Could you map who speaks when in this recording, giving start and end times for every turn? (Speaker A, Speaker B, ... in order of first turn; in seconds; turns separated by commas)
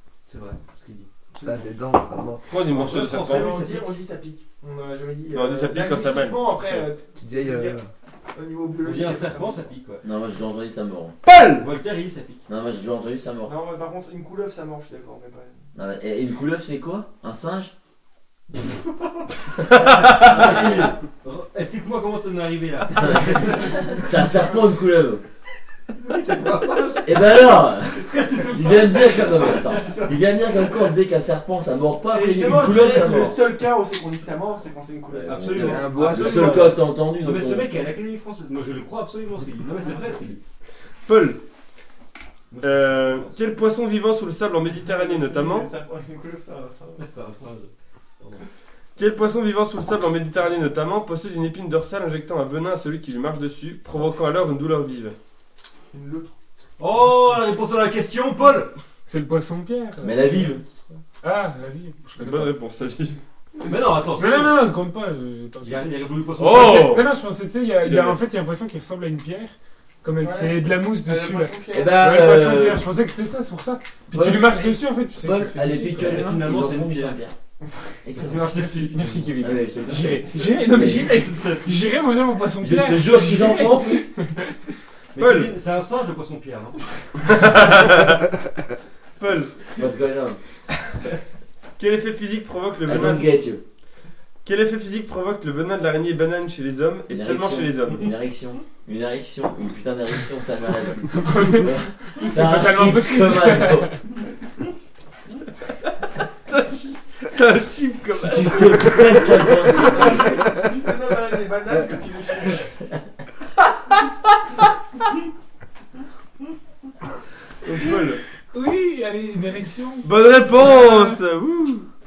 Speaker A: 0.3-1.6, Speaker B: 1.4-2.5, Speaker C: 2.5-3.6, Speaker A: 2.7-3.9, Speaker D: 2.8-9.7, Speaker C: 5.3-6.7, Speaker B: 7.2-7.9, Speaker A: 8.8-10.0, Speaker E: 10.0-11.2, Speaker C: 11.2-11.7, Speaker A: 11.6-12.4, Speaker E: 12.5-13.6, Speaker D: 13.4-15.7, Speaker E: 15.8-17.7, Speaker C: 19.9-20.2, Speaker E: 20.0-21.0, Speaker A: 20.2-24.0, Speaker E: 23.9-25.2, Speaker A: 26.0-27.4, Speaker E: 27.0-33.4, Speaker D: 27.9-30.2, Speaker A: 28.1-29.9, Speaker D: 32.1-35.7, Speaker E: 35.1-37.7, Speaker A: 35.3-40.4, Speaker B: 35.7-36.8, Speaker C: 41.1-41.4, Speaker A: 42.5-43.3, Speaker C: 42.6-45.7, Speaker D: 44.7-47.1, Speaker A: 47.0-48.5, Speaker C: 49.0-55.2, Speaker D: 55.9-56.3, Speaker A: 56.8-58.7, Speaker F: 59.1-60.6, Speaker E: 60.0-60.6, Speaker F: 61.2-62.6, Speaker C: 62.2-63.2, Speaker A: 63.6-64.7, Speaker F: 64.2-65.9, Speaker A: 65.6-67.0, Speaker C: 66.4-67.1, Speaker F: 66.5-76.4, Speaker C: 67.8-68.2, Speaker D: 70.2-72.1, Speaker E: 71.7-72.8, Speaker E: 74.1-77.3, Speaker A: 75.9-77.2, Speaker E: 78.0-78.6, Speaker A: 78.2-79.4, Speaker F: 78.7-84.5, Speaker E: 79.4-81.2, Speaker A: 80.4-82.0, Speaker E: 82.6-84.1, Speaker A: 85.2-86.8, Speaker C: 85.2-85.5, Speaker C: 87.3-88.3, Speaker C: 89.2-89.7, Speaker E: 89.8-90.4, Speaker C: 91.8-93.3, Speaker E: 92.8-93.6, Speaker C: 94.4-98.1, Speaker E: 97.1-103.9, Speaker F: 101.2-104.0, Speaker C: 106.5-109.7, Speaker E: 108.2-110.4, Speaker D: 109.8-112.7, Speaker C: 117.6-118.2, Speaker F: 118.5-121.2, Speaker C: 120.0-121.9